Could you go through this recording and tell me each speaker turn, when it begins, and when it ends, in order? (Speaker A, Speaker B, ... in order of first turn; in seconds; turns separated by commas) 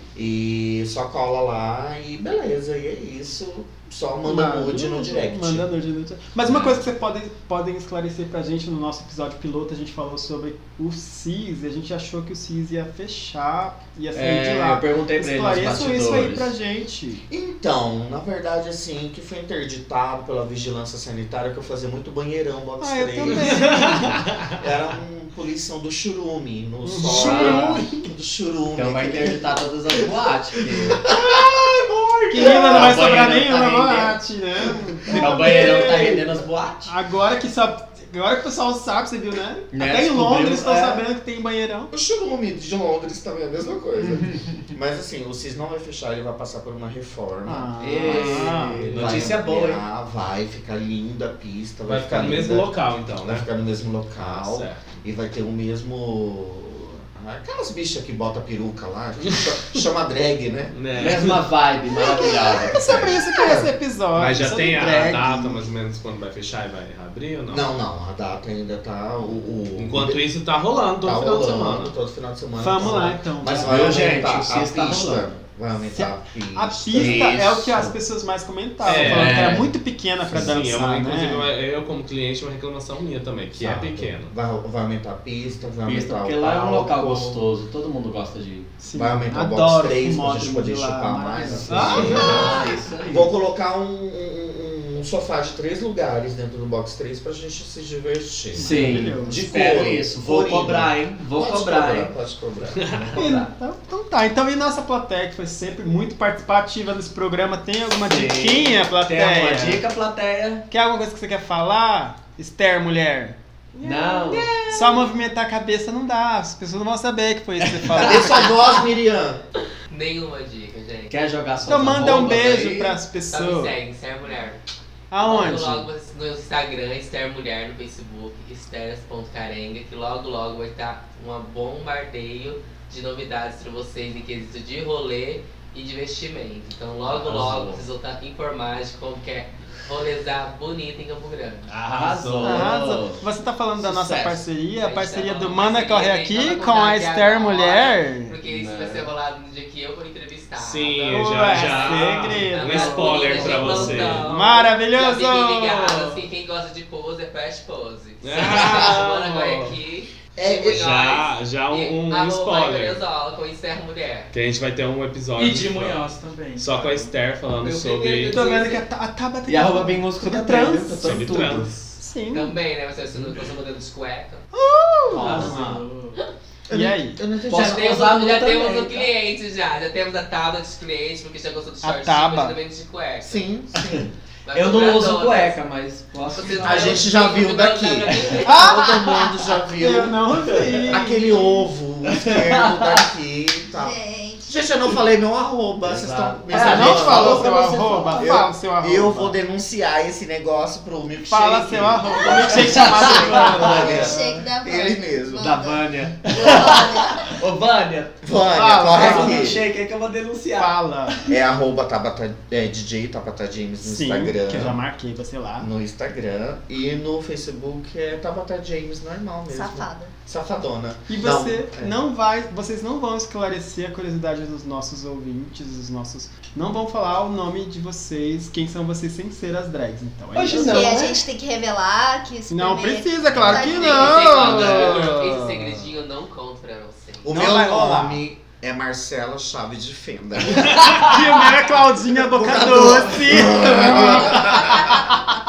Speaker A: 0.1-5.7, Speaker B: 4.2-17.2, Speaker C: 14.1-16.5, Speaker A: 17.3-30.1, Speaker B: 22.8-24.2, Speaker D: 23.4-24.2, Speaker B: 26.8-27.9, Speaker D: 27.1-27.6, Speaker C: 27.1-27.8, Speaker C: 28.7-31.0, Speaker A: 30.9-31.7, Speaker D: 31.1-32.6, Speaker B: 32.3-41.9, Speaker A: 32.4-32.8, Speaker C: 32.4-34.2, Speaker A: 35.1-35.8, Speaker C: 35.1-36.9, Speaker C: 39.7-41.0, Speaker A: 41.9-48.3, Speaker B: 47.5-48.9, Speaker C: 47.8-49.8, Speaker D: 48.0-49.4, Speaker A: 48.9-60.8, Speaker D: 51.9-53.5, Speaker D: 54.1-55.0, Speaker D: 60.7-61.4, Speaker C: 60.9-63.3, Speaker B: 62.1-65.5, Speaker A: 63.4-63.7, Speaker D: 64.1-67.6, Speaker A: 67.5-70.2, Speaker D: 69.8-71.9, Speaker A: 71.0-77.3, Speaker B: 72.6-73.9, Speaker C: 73.5-75.2, Speaker B: 75.9-81.5, Speaker C: 76.9-77.9, Speaker D: 78.8-79.5, Speaker C: 78.8-79.7, Speaker D: 80.3-84.3, Speaker A: 83.7-87.4, Speaker C: 85.8-88.7, Speaker B: 88.8-92.6, Speaker A: 88.9-103.2, Speaker C: 91.5-93.3, Speaker B: 98.5-99.4, Speaker C: 98.6-102.1, Speaker D: 102.8-103.1, Speaker C: 103.0-103.5, Speaker B: 103.2-109.8, Speaker C: 108.0-110.6, Speaker B: 110.7-113.4, Speaker D: 113.7-114.9, Speaker C: 113.8-114.5, Speaker B: 114.7-118.5, Speaker C: 117.6-118.5, Speaker A: 118.0-119.4, Speaker E: 119.9-121.1, Speaker C: 121.1-123.0, Speaker B: 121.7-123.7, Speaker E: 123.2-124.6, Speaker B: 125.1-125.9, Speaker E: 125.2-141.7, Speaker C: 137.0-137.8, Speaker D: 141.7-142.7, Speaker C: 141.7-143.2, Speaker B: 142.4-148.3, Speaker C: 143.8-144.4, Speaker E: 144.7-164.3, Speaker C: 148.4-149.1, Speaker D: 150.6-154.3, Speaker B: 151.1-153.6, Speaker C: 153.2-154.2, Speaker B: 154.2-156.3, Speaker D: 158.2-159.8, Speaker A: 160.4-160.8, Speaker D: 160.6-163.0, Speaker D: 164.3-166.1, Speaker F: 165.3-167.1, Speaker D: 166.6-168.4, Speaker E: 167.6-168.8, Speaker B: 168.3-171.1, Speaker C: 169.5-171.7, Speaker D: 171.0-171.9, Speaker B: 172.0-172.5, Speaker E: 172.3-174.4, Speaker B: 174.5-175.6, Speaker C: 175.1-175.8, Speaker F: 175.2-176.2, Speaker A: 176.7-177.9, Speaker B: 176.7-177.2, Speaker C: 177.5-179.1, Speaker E: 177.5-183.4, Speaker B: 181.8-182.5, Speaker A: 183.2-184.1, Speaker C: 183.8-187.1, Speaker E: 184.4-185.6, Speaker E: 186.3-189.3, Speaker A: 186.6-197.5, Speaker B: 188.4-191.3, Speaker C: 192.1-193.1, Speaker G: 193.7-194.7, Speaker C: 195.8-198.3, Speaker B: 196.5-199.3, Speaker A: 198.1-205.6, Speaker B: 201.3-204.5, Speaker G: 202.3-207.4, Speaker C: 202.6-203.6, Speaker C: 205.4-208.2, Speaker A: 208.2-209.6, Speaker B: 208.5-209.6, Speaker C: 208.8-211.3, Speaker B: 210.5-211.2, Speaker A: 211.3-214.8, Speaker B: 213.8-215.7, Speaker A: 215.6-221.9, Speaker G: 219.5-220.1, Speaker B: 221.1-231.1, Speaker C: 230.3-231.2, Speaker G: 230.5-234.3, Speaker B: 232.5-235.8, Speaker E: 233.4-237.5, Speaker C: 234.4-235.1, Speaker A: 237.2-241.2, Speaker B: 237.3-238.2, Speaker B: 240.7-245.2, Speaker A: 242.3-245.0